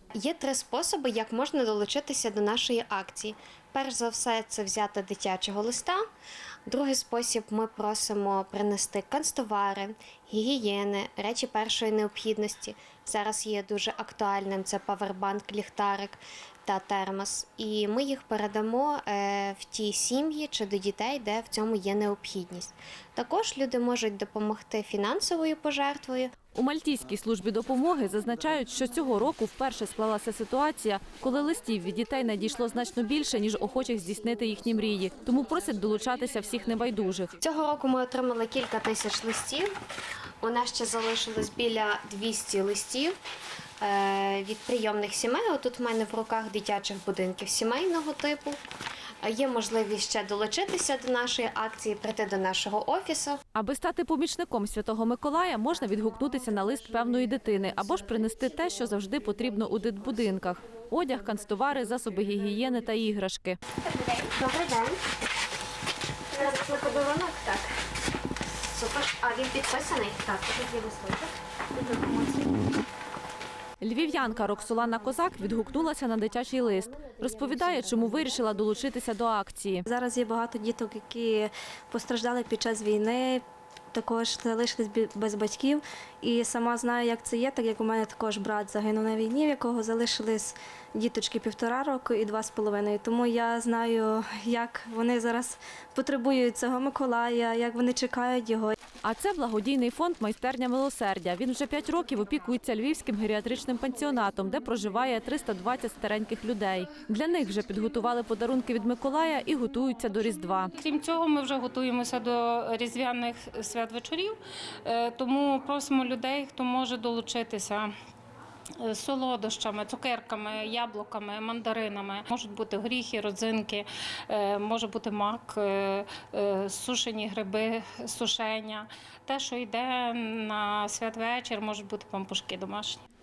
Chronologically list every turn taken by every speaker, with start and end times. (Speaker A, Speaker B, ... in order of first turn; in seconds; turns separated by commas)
Speaker A: 0.1-6.0, Speaker A: 6.7-26.3, Speaker B: 26.5-37.3, Speaker A: 37.4-39.7, Speaker A: 40.4-43.1, Speaker A: 43.8-48.6, Speaker A: 49.2-53.4, Speaker B: 53.5-63.6, Speaker A: 64.0-65.0, Speaker A: 66.3-67.7, Speaker A: 68.6-72.6, Speaker B: 73.8-79.8, Speaker A: 76.9-78.5, Speaker C: 79.9-98.7, Speaker B: 99.0-110.7, Speaker D: 110.8-117.9, Speaker D: 118.8-133.0